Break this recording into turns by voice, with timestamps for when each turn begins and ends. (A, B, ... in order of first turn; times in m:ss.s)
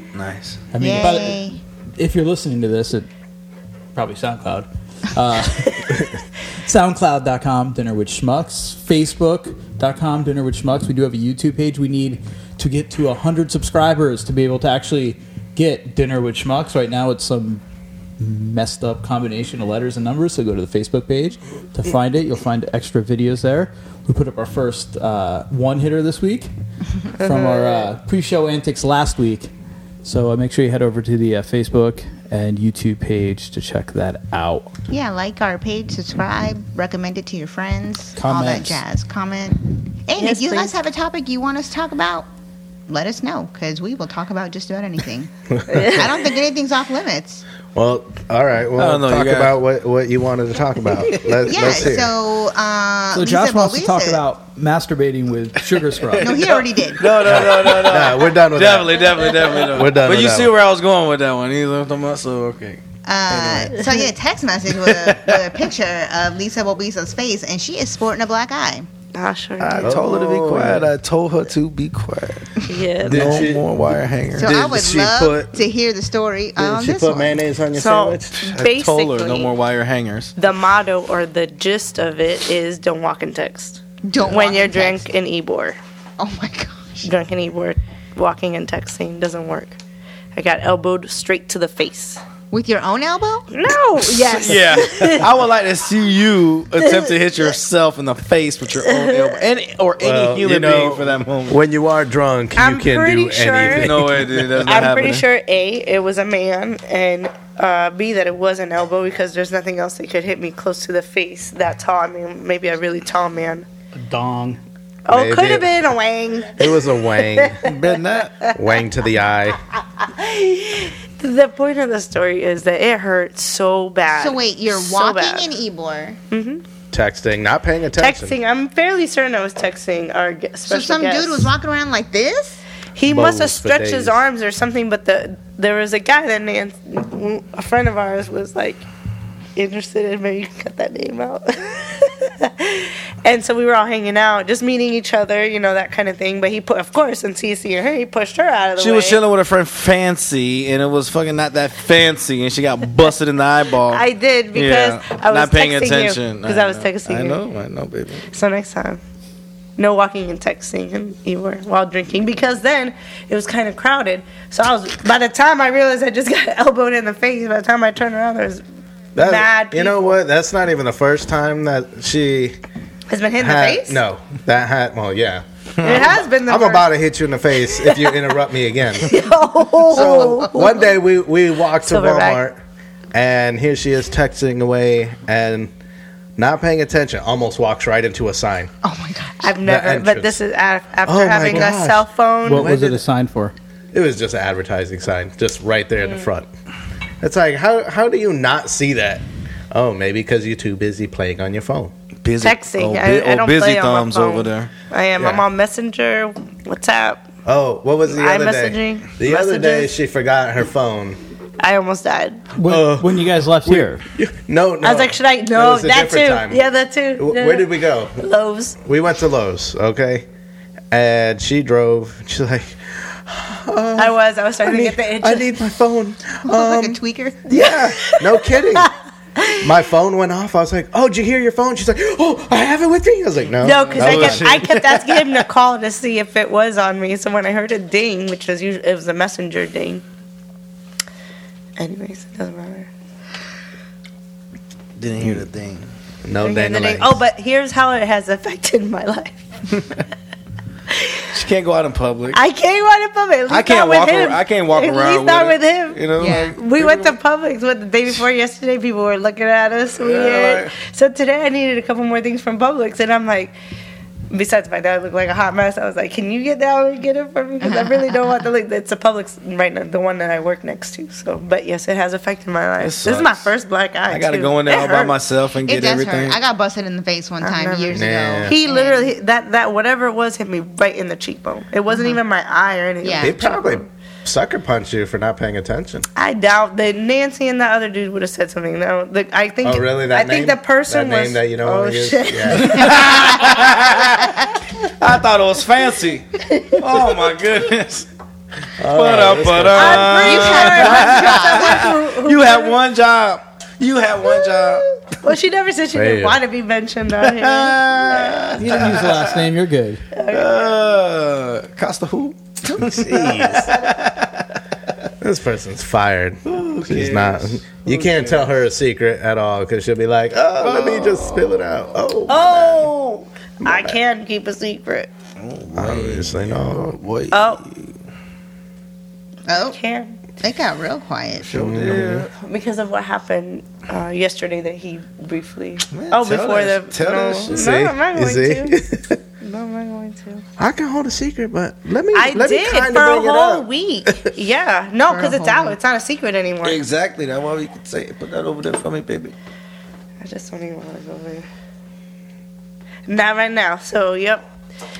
0:00.1-0:00.6 A
0:00.7-0:01.4 B
0:00.8-0:01.6 C
0:02.0-0:03.1 B
0:03.9-0:05.9 B
0:06.6-0:17.6 B
0:18.2-0:26.5 B
0:27.2-0:29.5 B
0:27.2-0:27.9 D
0:30.0-0:34.7 B
0:34.9-0:42.3 C
0:38.2-0:38.8 B
0:40.2-0:40.7 D
0:42.9-0:47.4 C
0:45.7-0:46.1 D
0:47.7-0:52.1 E
0:48.7-0:49.6 A
0:51.4-0:54.2 C
0:53.1-0:56.4 B
0:56.1-1:03.7 A
0:56.2-0:57.4 C
0:57.2-1:00.6 E
1:03.0-1:08.9 C
1:04.8-1:05.4 A
1:09.1-1:09.9 D
1:09.6-1:14.6 A
1:09.8-1:10.9 E
1:12.6-1:13.5 D
1:13.0-1:13.7 E
1:14.3-1:17.4 C
1:14.4-1:15.5 E
1:16.6-1:18.4 E
1:17.7-1:19.5 D
1:18.4-1:20.3 A
1:20.4-1:25.8 D
1:24.0-1:25.1 C
1:26.2-1:27.1 C
1:27.0-1:29.8 D
1:30.3-1:32.2 D
1:32.5-1:33.5 C
1:33.5-1:35.3 D
1:34.0-1:41.6 A
1:36.8-1:37.1 D
1:38.8-1:39.4 D
1:40.0-1:44.6 E
1:42.6-1:53.6 D
1:43.7-1:45.2 A
1:53.9-1:54.6 B
1:55.0-1:57.7 D
1:55.1-1:55.8 E
1:56.6-1:57.6 E
1:57.6-1:58.5 A
1:58.5-1:59.6 E
2:00.0-2:05.5 D
2:04.1-2:06.2 C
2:06.3-2:06.6 D
2:06.9-2:08.4 E
2:08.0-2:11.5 D
2:10.6-2:12.6 C
2:13.0-2:18.8 D
2:13.0-2:14.2 E
2:19.6-2:29.2 D
2:28.8-2:38.3 A
2:33.9-2:37.4 D
2:38.3-2:39.0 D
2:39.8-2:48.6 D
2:49.2-2:50.1 D
2:49.2-2:52.6 E
2:53.1-2:54.0 D
2:53.4-2:59.2 E
2:55.8-2:56.9 D
2:57.8-2:58.3 D
2:59.0-3:00.9 D
2:59.9-3:02.6 E
2:59.9-3:00.7 C
3:01.8-3:02.4 D
3:03.1-3:05.7 E
3:06.4-3:08.7 E
3:08.8-3:09.6 C
3:09.4-3:12.7 D
3:09.6-3:10.4 E
3:11.0-3:13.0 E
3:12.4-3:13.5 B
3:13.9-3:16.5 E
3:16.0-3:16.3 D
3:17.2-3:21.9 E
3:22.2-3:24.7 A
3:22.4-3:27.2 D
3:25.2-3:25.4 E
3:27.4-3:31.2 E
3:28.1-3:29.9 D
3:31.6-3:32.4 D
3:32.6-3:34.0 B
3:32.6-3:36.6 E
3:34.8-3:38.8 D
3:37.2-3:38.2 E
3:38.8-3:40.2 E
3:40.9-3:48.9 E
3:44.0-3:45.6 D
3:46.4-3:47.4 C
3:47.5-3:49.5 D
3:49.6-3:54.6 E
3:53.6-4:00.0 D
3:53.7-3:55.4 A
4:01.8-4:02.9 D
4:05.0-4:05.9 A
4:06.2-4:07.2 E
4:06.4-4:09.4 D
4:11.0-4:11.2 D
4:11.3-4:12.4 A
4:12.3-4:23.5 D
4:13.5-4:17.1 A
4:16.2-4:16.6 C
4:19.9-4:20.7 A
4:24.3-4:35.2 D
4:27.6-4:28.5 C
4:32.8-4:33.5 A
4:34.1-4:36.4 A
4:35.6-4:39.1 C
4:37.4-4:43.9 D
4:37.9-4:38.5 E
4:41.9-4:42.2 C
4:43.0-4:43.4 C
4:43.2-4:46.0 E
4:46.2-4:53.7 D
4:49.6-4:53.0 E
4:52.7-4:58.1 A
4:56.5-4:56.8 D
4:58.8-5:00.3 E
4:58.9-5:04.8 A
4:59.7-5:02.8 D
5:00.1-5:01.9 C
5:05.2-5:08.6 D
5:05.9-5:06.4 E
5:07.2-5:09.5 A
5:08.6-5:10.0 B
5:10.1-5:10.9 D
5:10.3-5:14.4 A
5:12.7-5:13.3 C
5:12.8-5:13.7 E
5:15.2-5:22.9 E
5:16.4-5:18.6 A
5:20.3-5:22.2 A
5:22.3-5:25.1 D
5:23.6-5:24.0 E
5:25.4-5:27.9 A
5:25.8-5:27.0 E
5:27.3-5:27.6 D
5:29.5-5:29.8 C
5:29.6-5:30.2 D
5:30.4-5:31.6 C
5:31.4-5:32.3 A
5:31.5-5:32.3 E
5:32.4-5:38.8 D
5:35.9-5:37.6 A
5:37.5-5:39.2 E
5:39.4-5:40.4 D
5:40.6-5:43.6 E
5:42.1-5:46.8 D
5:45.0-5:45.8 C
5:46.6-5:49.3 A
5:50.2-5:51.4 D
5:53.1-5:54.4 D